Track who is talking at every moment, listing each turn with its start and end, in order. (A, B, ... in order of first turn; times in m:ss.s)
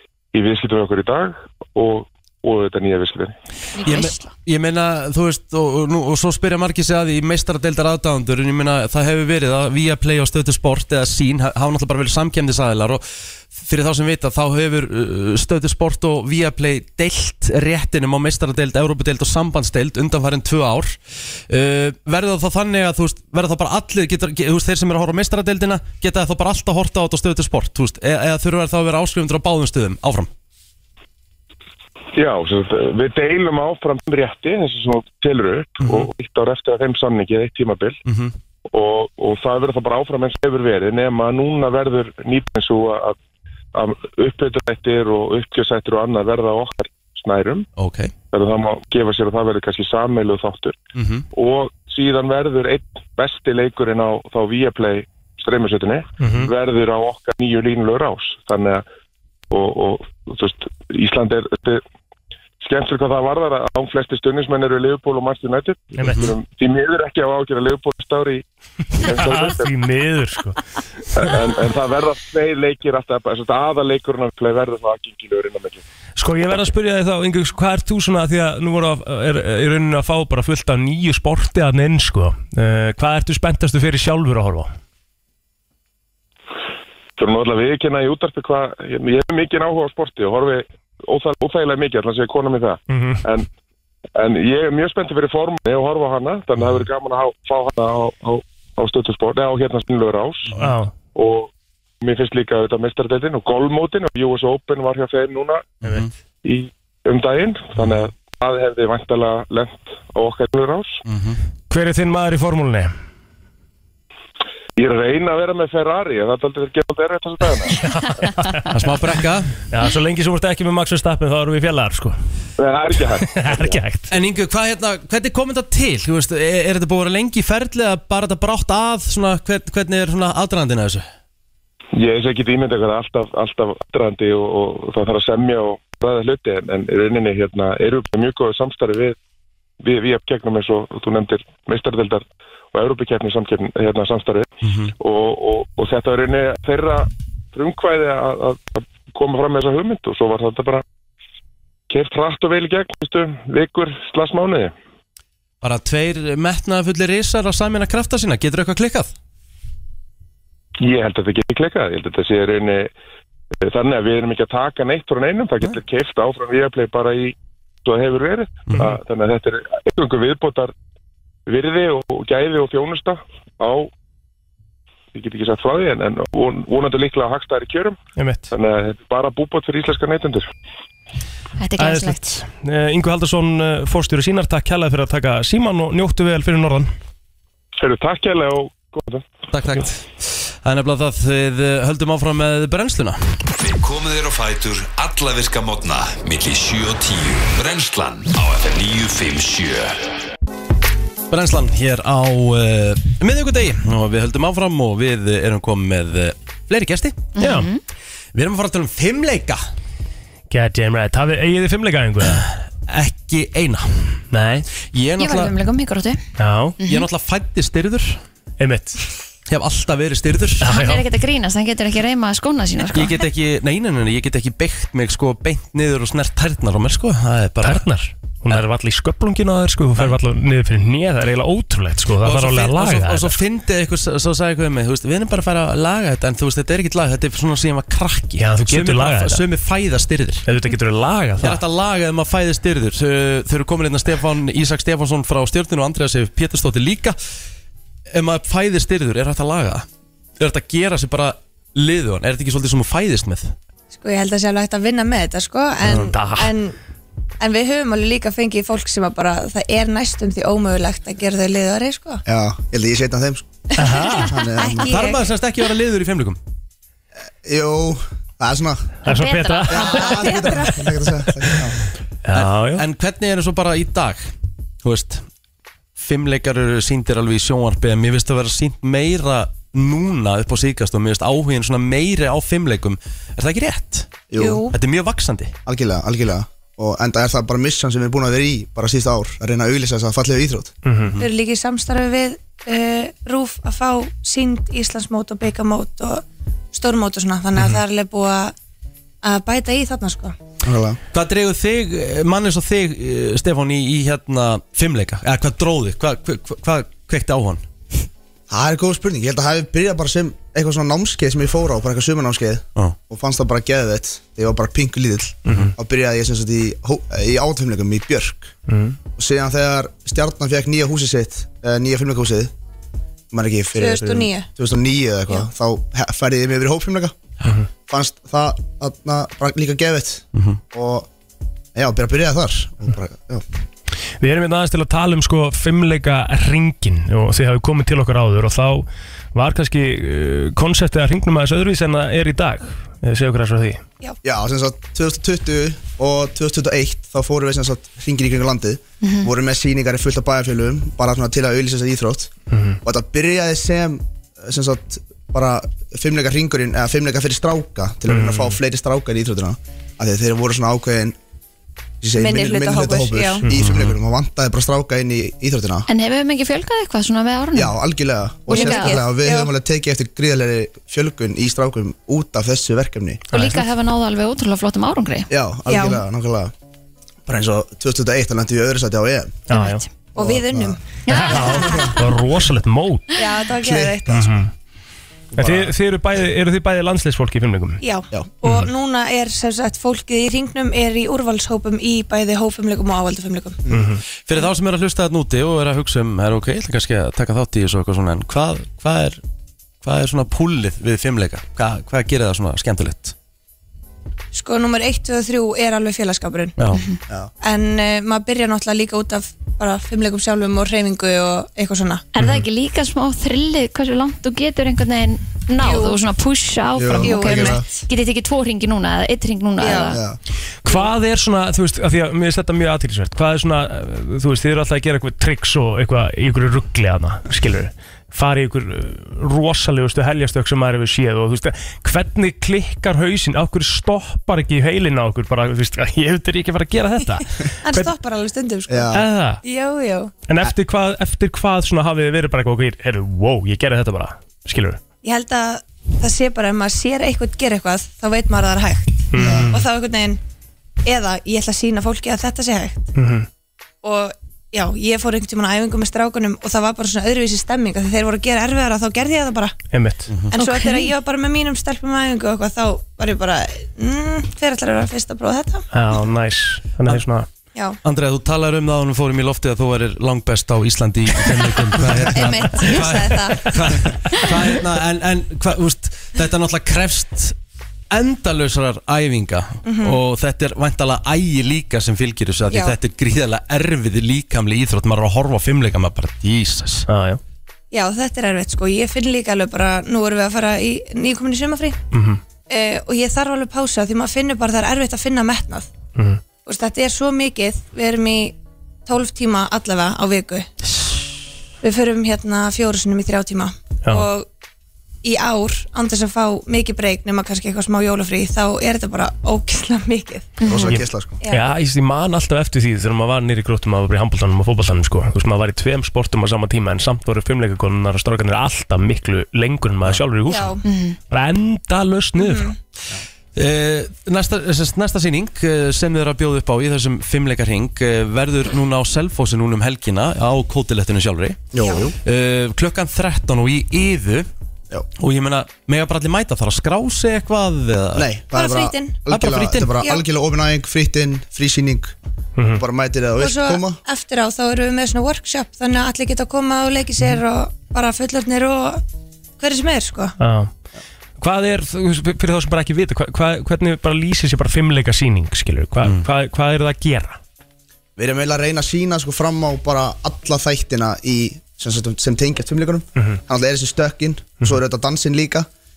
0:00.3-0:03.3 A
0:03.8-0:04.3 B
0:03.8-0:30.3 C
0:32.2-0:38.0 A
0:35.8-0:36.1 C
0:38.1-0:38.3 C
0:38.7-0:43.2 A
0:43.7-0:47.7 A
0:47.8-0:48.1 C
0:48.3-0:50.8 A
0:51.0-0:51.2 C
0:51.3-0:58.8 A
0:56.2-0:56.5 D
0:59.5-1:01.8 A
1:02.6-1:08.4 A
1:06.0-1:06.3 C
1:09.0-1:09.7 A
1:09.0-1:10.6 D
1:11.2-1:15.8 A
1:16.2-1:24.7 D
1:27.2-1:33.5 A
1:32.9-1:33.2 D
1:34.2-1:40.5 A
1:40.6-1:40.9 D
1:41.1-1:45.8 A
1:45.8-1:46.1 C
1:46.4-1:51.0 A
1:47.8-1:48.1 C
1:51.1-1:51.4 C
1:51.7-1:52.9 D
1:54.8-1:57.8 A
1:57.8-1:58.7 D
1:58.7-1:59.5 C
1:59.7-2:02.2 D
2:02.6-2:03.8 A
2:03.3-2:04.1 D
2:04.1-2:11.1 C
2:11.9-2:19.2 A
2:19.8-2:30.8 A
2:24.6-2:24.9 C
2:31.9-2:34.7 A
2:35.6-2:39.1 C
2:40.8-2:42.9 A
2:43.6-2:50.7 A
2:51.5-2:53.9 A
2:55.1-2:58.0 A
2:58.2-2:58.5 D
2:58.5-3:00.5 A
3:01.6-3:02.2 B
3:01.8-3:06.9 D
3:07.8-3:09.2 A
3:09.5-3:13.3 C
3:13.5-3:20.0 E
3:21.3-3:27.3 C
3:27.4-3:27.8 B
3:27.4-3:27.7 D
3:28.3-3:29.6 C
3:30.5-3:32.5 D
3:32.4-3:34.2 C
3:34.3-3:34.7 D
3:34.9-3:35.6 C
3:35.2-3:36.2 B
3:36.4-3:36.8 D
3:36.8-3:37.0 B
3:36.8-3:38.2 C
3:38.6-3:39.0 D
3:39.5-3:40.7 C
3:40.6-3:41.0 D
3:40.7-3:43.1 B
3:42.9-3:47.8 C
3:47.6-3:53.4 D
3:52.2-4:00.5 C
3:58.4-3:59.4 D
4:00.5-4:01.6 D
4:01.4-4:07.2 C
4:08.1-4:09.9 C
4:10.4-4:13.6 C
4:13.9-4:16.8 F
4:16.0-4:16.5 D
4:17.4-4:22.2 F
4:22.3-4:23.5 G
4:23.8-4:25.2 F
4:23.8-4:24.3 D
4:23.8-4:24.2 B
4:24.2-4:25.0 G
4:24.8-4:26.4 C
4:27.4-4:28.9 G
4:29.0-4:30.2 D
4:29.1-4:30.5 B
4:29.7-4:31.8 G
4:29.8-4:30.9 F
4:32.2-4:32.8 D
4:32.3-4:34.3 C
4:34.8-4:35.2 C
4:36.0-4:45.6 C
4:44.3-4:44.6 G
4:44.4-4:44.7 F
4:45.7-4:50.7 G
4:50.8-4:51.2 D
4:51.2-4:58.6 F
4:59.2-5:00.4 F
5:00.6-5:01.0 G
5:01.1-5:07.6 C
5:08.5-5:18.5 G
5:15.5-5:15.7 D
5:18.7-5:19.0 D
5:19.1-5:22.5 G
5:23.3-5:27.1 G
5:23.7-5:24.5 F
5:27.9-5:31.1 G
5:30.3-5:30.6 C
5:31.8-5:33.4 G
5:34.2-5:43.8 D
5:44.2-5:52.3 G
5:49.0-5:49.3 B
5:52.5-5:52.8 D
5:52.8-6:01.2 G
5:58.1-5:58.6 D
6:02.0-6:05.9 G
6:02.2-6:03.4 F
6:03.6-6:03.9 C
6:05.9-6:07.8 B
6:07.5-6:13.2 G
6:08.5-6:09.5 F
6:08.5-6:09.0 B
6:13.3-6:13.6 D
6:13.3-6:15.3 B
6:15.3-6:16.5 G
6:15.7-6:16.0 F
6:17.3-6:19.4 G
6:19.5-6:19.8 D
6:19.5-6:19.8 B
6:20.2-6:21.9 F
6:20.2-6:22.0 G
6:21.1-6:21.8 B
6:21.1-6:23.2 D
6:23.2-6:24.3 F
6:23.6-6:24.4 G
6:24.1-6:24.5 D
6:25.4-6:25.7 G
6:25.4-6:27.8 D
6:27.8-6:33.6 F
6:28.1-6:28.6 G
6:28.4-6:28.7 D
6:33.7-6:34.0 D
6:34.3-6:39.2 C
6:39.8-6:43.2 C
6:44.3-6:46.6 F
6:46.6-6:46.8 C
6:46.7-6:47.0 B
6:47.4-6:52.0 F
6:52.2-7:00.0 B
6:55.6-6:56.0 F
6:56.8-6:57.7 G
6:57.0-6:57.6 F
6:59.6-7:00.0 F
6:59.9-7:00.2 G
7:00.6-7:17.9 D
7:17.6-7:18.9 F
7:18.7-7:19.0 G
7:18.9-7:19.4 D
7:19.4-7:20.1 F
7:20.3-7:24.8 D
7:25.0-7:30.2 F
7:29.1-7:29.6 D
7:29.2-7:29.5 G
7:30.8-7:32.9 F
7:33.0-7:33.3 D
7:33.8-7:39.6 F
7:39.7-7:40.1 D
7:40.1-7:40.4 C
7:40.3-7:45.7 F
7:45.7-7:47.3 D
7:47.8-7:57.4 C
7:52.1-7:53.5 F
7:57.9-8:06.9 C
7:59.6-8:00.0 F
8:02.5-8:02.8 F
8:06.9-8:07.2 D
8:07.7-8:11.8 F
8:11.9-8:12.2 D
8:12.5-8:15.7 F
8:16.0-8:16.2 D
8:16.4-8:20.5 F
8:21.6-8:24.3 F
8:25.0-8:30.7 F
8:30.4-8:31.2 G
8:30.4-8:30.7 B
8:30.7-8:40.6 D
8:40.3-8:40.6 F
8:40.6-8:41.0 B
8:41.1-8:42.5 D
8:42.2-8:42.6 F
8:43.4-8:51.5 C
8:51.5-8:52.0 G
8:51.6-8:51.9 F
8:52.0-8:54.3 C
8:55.0-8:58.1 C
8:58.0-9:01.9 G
8:58.3-8:59.1 F
8:59.1-8:59.8 C
8:59.7-9:00.0 F
9:02.4-9:02.6 D
9:02.6-9:03.8 G
9:03.2-9:08.8 F
9:09.4-9:10.2 F
9:10.2-9:10.5 D
9:11.2-9:17.2 D
9:18.0-9:25.5 G